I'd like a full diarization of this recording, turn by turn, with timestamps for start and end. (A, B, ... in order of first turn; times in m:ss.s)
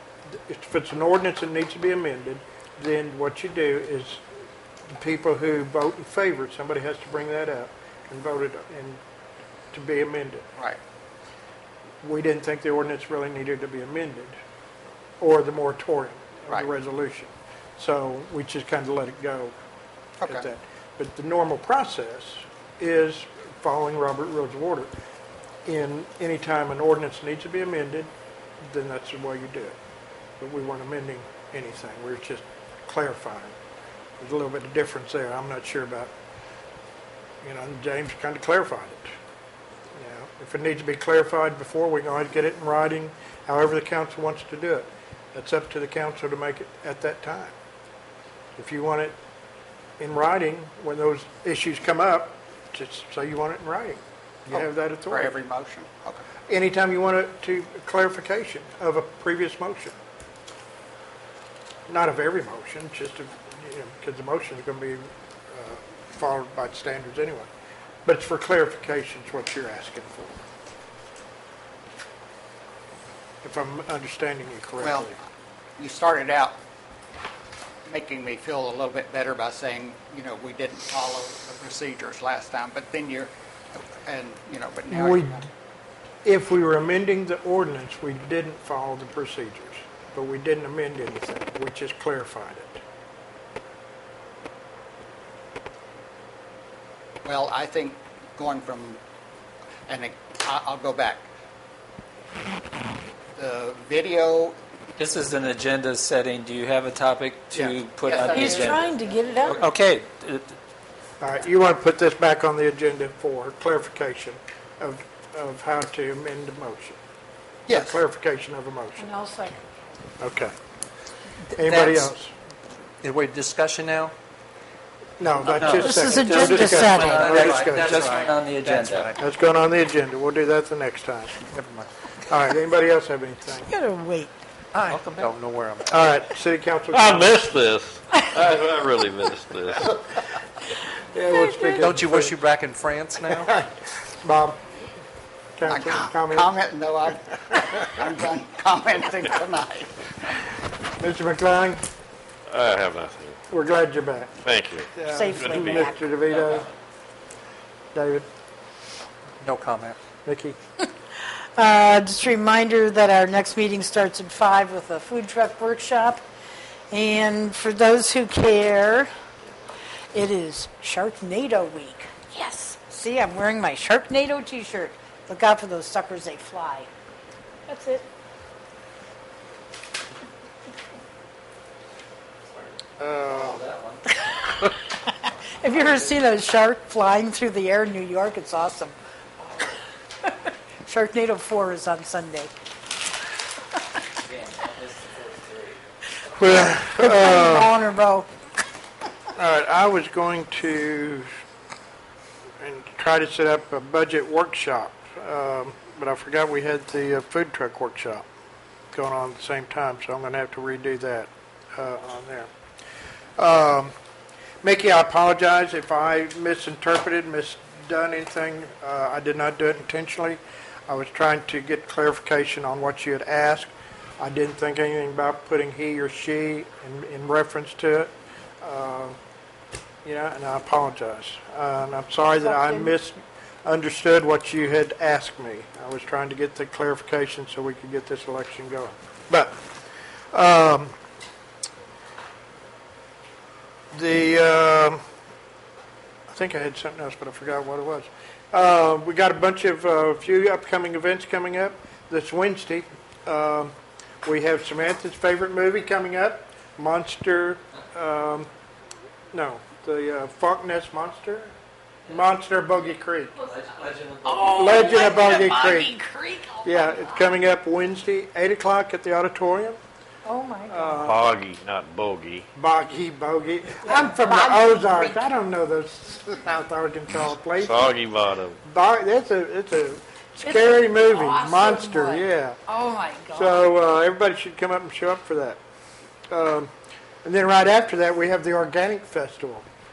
0:00.4-0:04.2 A
0:04.9-0:09.0 A
0:09.7-0:10.5 A
0:12.0-0:14.4 A
0:15.2-0:19.5 A
0:20.3-0:24.9 A
0:25.6-0:28.1 A
0:28.6-0:29.7 A
0:30.4-0:33.6 A
0:34.2-0:36.1 A
0:37.4-0:39.1 A
0:40.0-0:47.5 A
0:48.6-0:49.2 A
0:50.0-0:55.4 A
0:54.5-0:56.2 B
0:56.5-1:00.0 A
1:01.9-1:07.5 A
1:08.0-1:10.4 A
1:13.4-1:15.2 A
1:14.8-1:15.2 B
1:15.8-1:16.5 B
1:17.8-1:25.5 B
1:24.9-1:25.5 A
1:26.2-1:32.8 A
1:37.2-1:39.0 B
1:39.9-1:41.3 B
1:43.4-1:44.6 B
1:45.0-1:48.9 C
1:47.5-1:49.6 B
1:48.3-1:49.7 D
1:49.4-1:50.5 C
1:51.2-1:57.0 A
1:57.7-1:58.0 B
1:57.7-1:59.1 A
1:59.0-1:59.6 D
2:00.2-2:00.5 A
2:01.5-2:02.3 A
2:01.6-2:02.0 E
2:03.0-2:04.1 E
2:05.2-2:08.2 A
2:05.4-2:09.1 C
2:05.8-2:07.4 D
2:07.0-2:09.2 E
2:09.2-2:11.4 A
2:11.5-2:11.8 E
2:12.3-2:13.7 A
2:13.6-2:14.3 D
2:14.7-2:15.9 E
2:14.8-2:15.3 C
2:15.9-2:17.4 A
2:16.9-2:19.9 F
2:21.1-2:22.4 A
2:21.3-2:21.8 D
2:21.8-2:23.5 E
2:23.4-2:24.6 A
2:25.6-2:26.5 A
2:25.6-2:30.1 B
2:31.0-2:31.8 A
2:32.5-2:33.4 F
2:33.5-2:34.3 A
2:34.4-2:35.9 F
2:34.9-2:36.7 A
2:35.1-2:36.1 D
2:36.3-2:36.7 C
2:37.9-2:38.3 A
2:39.4-2:40.0 E
2:40.2-2:40.6 A
2:41.6-2:46.2 D
2:46.9-2:49.1 D
2:50.1-2:56.9 D
2:57.7-2:58.0 D
3:02.5-3:04.0 C
3:03.0-3:03.6 A
3:04.2-3:08.9 D
3:05.6-3:06.1 C
3:10.2-3:12.5 D
3:14.2-3:15.8 C
3:16.3-3:17.7 A
3:16.5-3:18.3 D
3:19.3-3:21.3 A
3:22.6-3:28.2 A
3:28.9-3:32.5 A
3:33.4-3:33.9 A
3:34.6-3:49.2 A
3:50.0-3:59.6 A
3:52.4-3:53.0 D
4:00.3-4:00.9 A
4:03.9-4:05.0 A
4:06.3-4:18.5 A
4:19.3-4:21.5 A
4:22.1-4:23.4 A
4:23.4-4:25.2 C
4:24.2-4:26.8 D
4:24.5-4:26.0 A
4:26.6-4:29.8 A
4:30.2-4:31.1 D
4:30.7-4:31.2 A
4:31.0-4:32.5 F
4:32.5-4:37.9 A
4:33.8-4:35.2 D
4:37.6-4:38.6 F
4:38.6-4:42.6 A
4:40.4-4:43.6 D
4:43.3-4:45.6 A
4:46.3-4:46.7 A
4:47.2-4:49.6 A